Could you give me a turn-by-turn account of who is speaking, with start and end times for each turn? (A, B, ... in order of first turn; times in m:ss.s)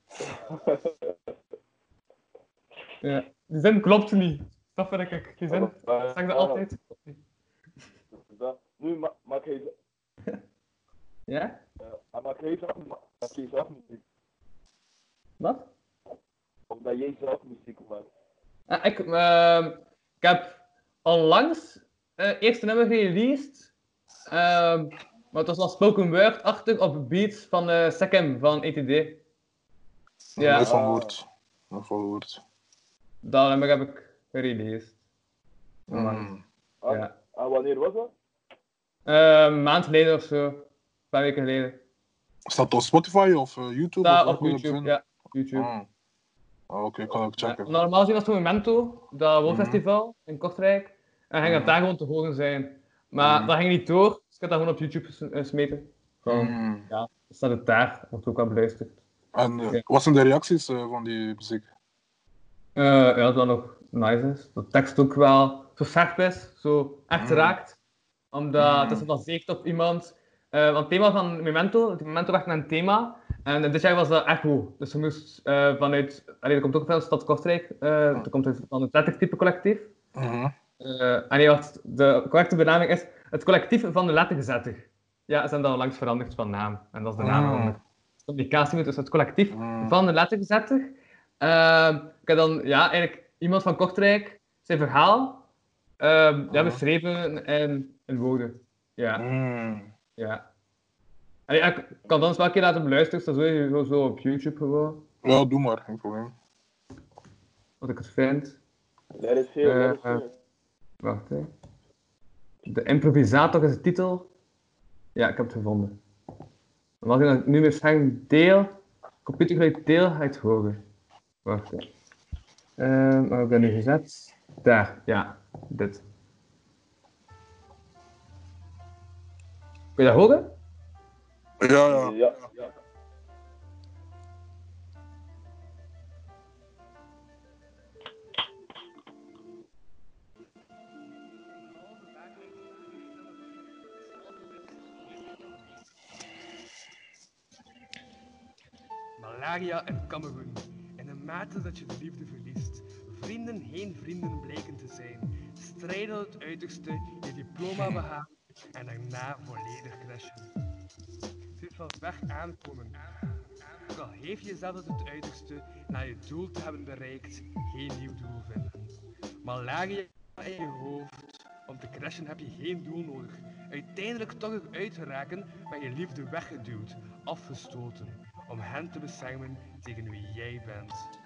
0:00.3-0:01.1 A
0:03.0-0:07.2 B
0:05.5-0:06.6 A
0:08.1-0:09.7 A
0:11.3-0:11.6 B
0:11.8-0:14.0 A
0:15.4-0:15.7 B
0:16.7-0:18.1 A
0:18.7-0:23.7 B
0:24.3-0:29.2 B
0:30.4-0:32.4 C
0:30.4-0:30.7 B
0:30.5-0:31.2 A
0:33.2-0:34.9 B
0:35.9-0:36.4 C
0:35.9-0:36.3 B
0:36.8-0:38.1 A
0:39.0-0:41.8 B
0:42.5-0:44.9 C
0:44.0-0:45.7 B
0:45.5-0:45.9 C
0:46.7-0:47.7 C
0:47.4-0:59.0 B
0:49.4-0:49.8 C
0:51.4-0:51.8 C
0:53.2-0:53.5 C
0:56.3-0:56.9 C
0:59.3-1:01.7 C
1:02.8-1:07.8 B
1:07.2-1:07.6 C
1:08.3-1:19.9 B
1:08.6-1:09.1 C
1:20.1-1:20.5 C
1:20.8-1:27.8 B
1:27.2-1:27.8 C
1:28.3-1:35.4 B
1:29.5-1:30.0 C
1:36.0-1:39.2 B
1:36.5-1:36.8 C
1:39.2-1:39.9 C
1:40.2-1:40.4 B
1:41.5-1:45.0 B
1:45.2-1:46.3 C
1:47.8-1:48.6 B
1:49.2-1:50.3 A
1:49.6-1:50.2 B
1:51.0-1:51.5 B
1:52.6-1:54.3 B
1:55.2-1:56.0 B
1:57.0-2:00.8 B
2:01.4-2:01.8 B
2:02.8-2:06.0 B
2:10.0-2:10.5 B
2:11.6-2:12.2 C
2:11.9-2:12.7 A
2:21.8-2:23.4 D
2:24.2-2:24.8 D
2:29.2-2:40.5 D
2:41.6-2:43.0 D
2:43.7-2:48.9 D
2:49.4-3:01.1 D